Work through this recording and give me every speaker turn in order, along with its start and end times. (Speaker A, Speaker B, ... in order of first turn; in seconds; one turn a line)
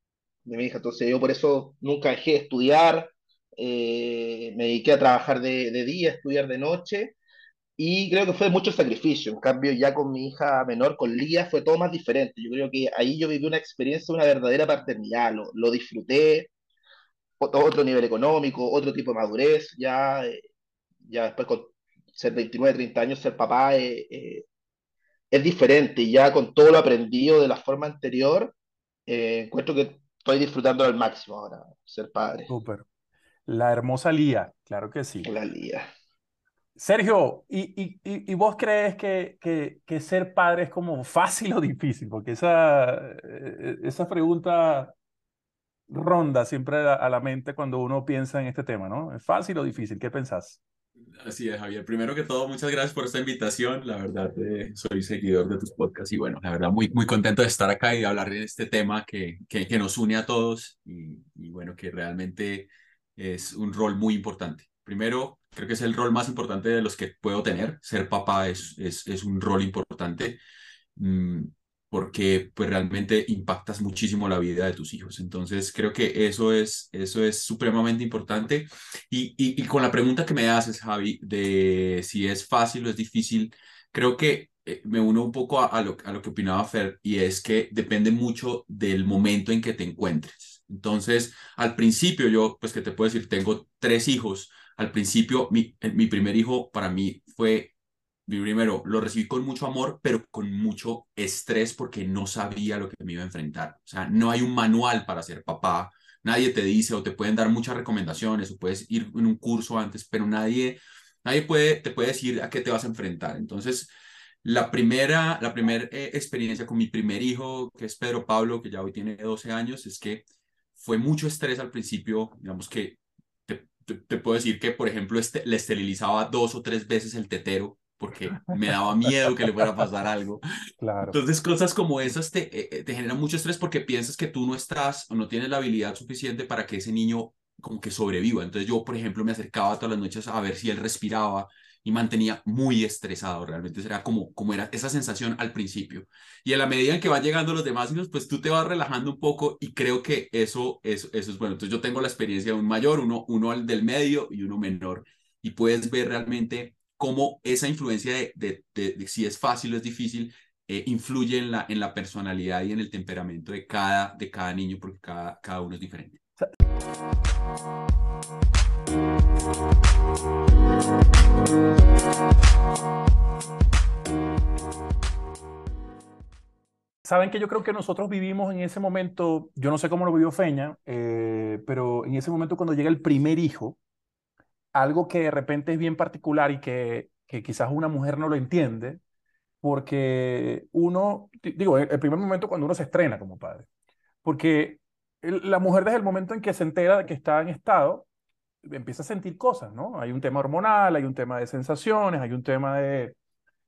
Speaker A: 0.5-7.2
Speaker A: 7.8-16.5
Speaker A: 17.4-20.4
Speaker A: 21.0-24.4
Speaker A: 25.3-28.5
Speaker A: 29.1-32.5
Speaker B: 32.5-32.9
Speaker B: 33.5-35.3
Speaker A: 35.2-35.9
Speaker B: 36.8-44.9
Speaker B: 45.9-50.6
Speaker C: 51.1-70.4
Speaker C: 71.0-97.7
Speaker C: 98.3-113.9
Speaker C: 114.4-120.2
Speaker C: 120.8-130.4
Speaker B: 129.1-129.7
Speaker B: 130.8-131.2
Speaker C: 131.0-166.2
Speaker B: 177.0-183.8
Speaker B: 184.7-189.0
Speaker B: 189.6-193.7
Speaker B: 194.2-198.1
Speaker B: 198.7-203.2